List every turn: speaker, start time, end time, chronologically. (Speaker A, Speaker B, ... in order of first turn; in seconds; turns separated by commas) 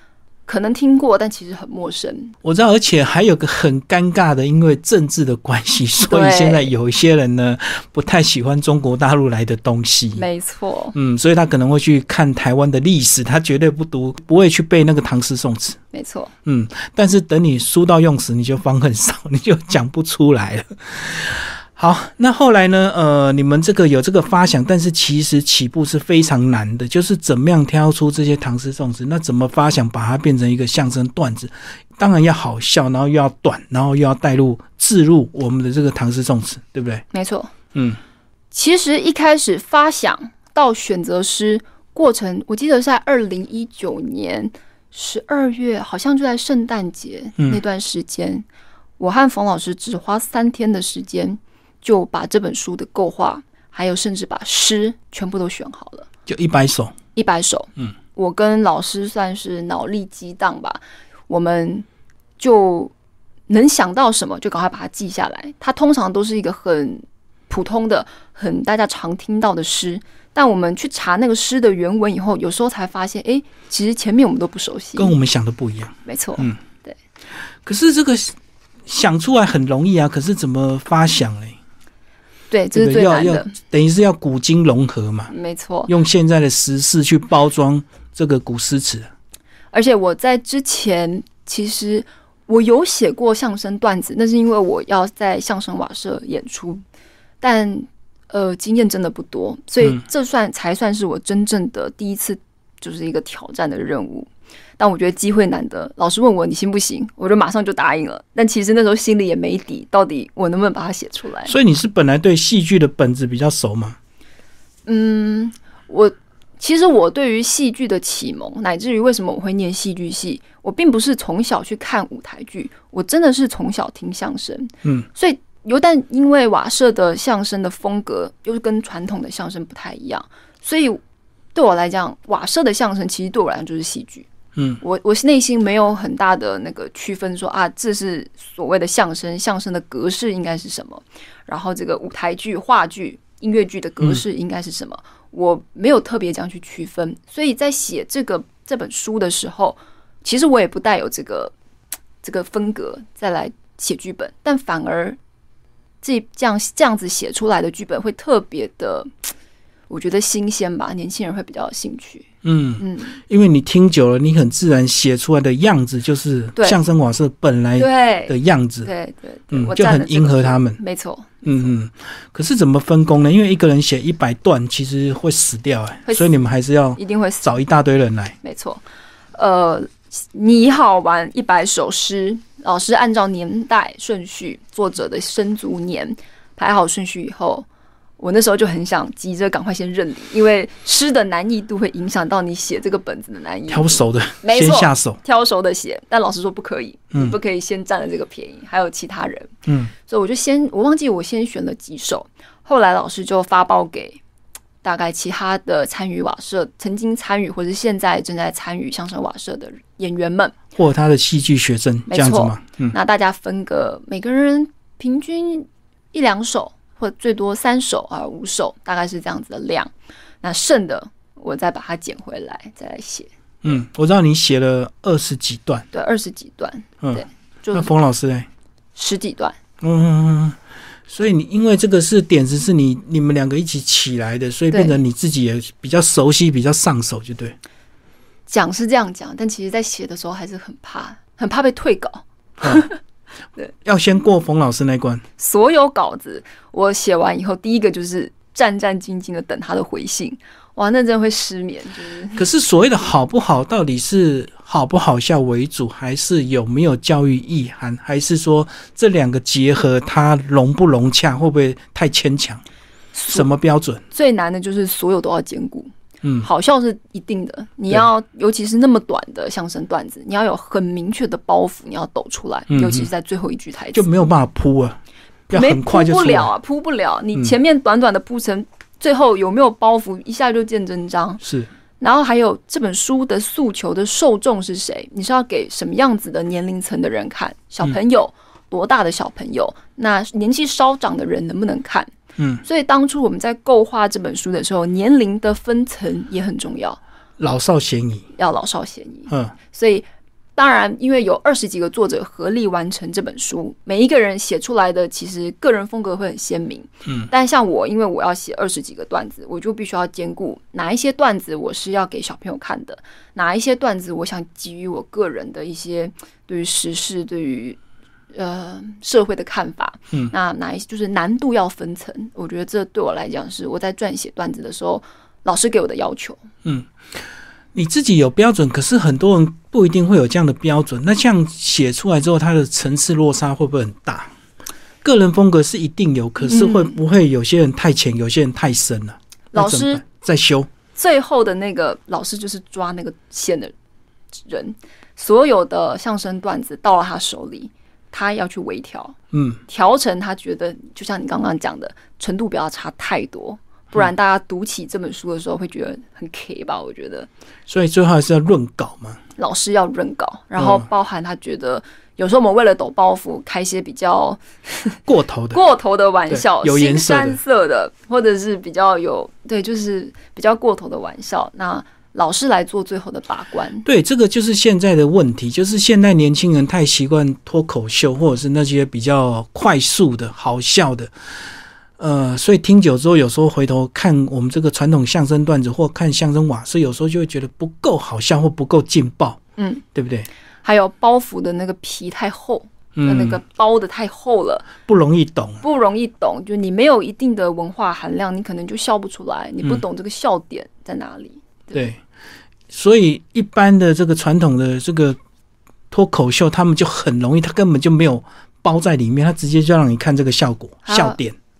Speaker A: 0.5-2.3, Speaker B: 2.4-10.2, Speaker A: 6.0-6.7, Speaker A: 10.2-10.9, Speaker B: 10.9-15.8, Speaker A: 15.9-16.3, Speaker B: 16.4-37.0, Speaker A: 37.1-37.5, Speaker B: 37.7-38.0, Speaker A: 38.5-48.4, Speaker A: 49.0-56.1, Speaker B: 56.3-56.9, Speaker A: 57.1-61.9, Speaker A: 62.4-62.9, Speaker A: 63.5-75.2, Speaker B: 75.0-76.6, Speaker A: 76.0-77.0, Speaker B: 77.6-78.3, Speaker B: 78.9-81.6, Speaker A: 82.5-83.5, Speaker B: 82.7-85.3, Speaker A: 85.3-85.9, Speaker B: 85.9-89.1, Speaker A: 89.7-96.8, Speaker A: 97.4-111.5, Speaker B: 111.5-114.0, Speaker A: 114.8-131.0, Speaker A: 131.5-134.3, Speaker B: 134.6-134.8, Speaker A: 134.8-151.5, Speaker A: 152.2-155.2, Speaker A: 156.0-159.1, Speaker A: 159.9-162.2, Speaker B: 162.4-168.9, Speaker A: 162.8-163.2, Speaker A: 167.8-171.7, Speaker B: 169.5-170.8, Speaker B: 171.4-178.3, Speaker A: 177.0-177.5, Speaker A: 178.4-178.8, Speaker A: 179.3-187.7, Speaker A: 188.2-204.2, Speaker B: 193.7-195.2, Speaker B: 199.7-199.9, Speaker A: 204.8-210.5, Speaker B: 210.8-212.9, Speaker A: 212.1-219.9, Speaker A: 220.4-223.3, Speaker B: 223.6-225.8, Speaker A: 225.9-227.9, Speaker B: 227.0-228.5, Speaker A: 228.9-229.6, Speaker B: 229.8-230.6, Speaker B: 231.1-237.6, Speaker A: 238.5-243.0, Speaker B: 242.6-242.9, Speaker B: 243.8-245.2, Speaker A: 245.4-252.4, Speaker B: 252.3-262.6, Speaker A: 263.1-263.5, Speaker B: 263.3-264.0, Speaker A: 264.1-265.9, Speaker A: 266.4-274.3, Speaker B: 272.7-273.1, Speaker B: 273.9-276.5, Speaker A: 275.5-281.4, Speaker B: 281.4-281.7, Speaker A: 282.0-292.1, Speaker B: 292.4-292.6, Speaker A: 292.6-297.0, Speaker B: 297.4-298.2, Speaker A: 298.3-317.8, Speaker B: 299.3-299.5, Speaker A: 318.3-326.4, Speaker B: 326.6-326.9, Speaker B: 327.7-334.3, Speaker B: 335.0-340.7, Speaker A: 336.4-336.9, Speaker A: 339.5-340.0, Speaker A: 340.9-343.7, Speaker A: 344.4-349.1, Speaker B: 349.3-349.6, Speaker A: 349.7-357.3, Speaker B: 357.7-359.2, Speaker A: 359.4-365.0, Speaker B: 360.6-360.9, Speaker B: 365.1-365.6, Speaker A: 365.5-373.8, Speaker B: 366.3-367.4, Speaker B: 373.8-381.1, Speaker B: 382.0-389.4, Speaker A: 389.6-389.8, Speaker B: 389.9-390.3, Speaker A: 390.6-394.7, Speaker B: 392.9-393.4, Speaker B: 394.8-395.6, Speaker A: 395.6-401.8, Speaker B: 401.7-402.0, Speaker B: 402.7-405.2, Speaker B: 405.9-411.3, Speaker A: 410.9-411.2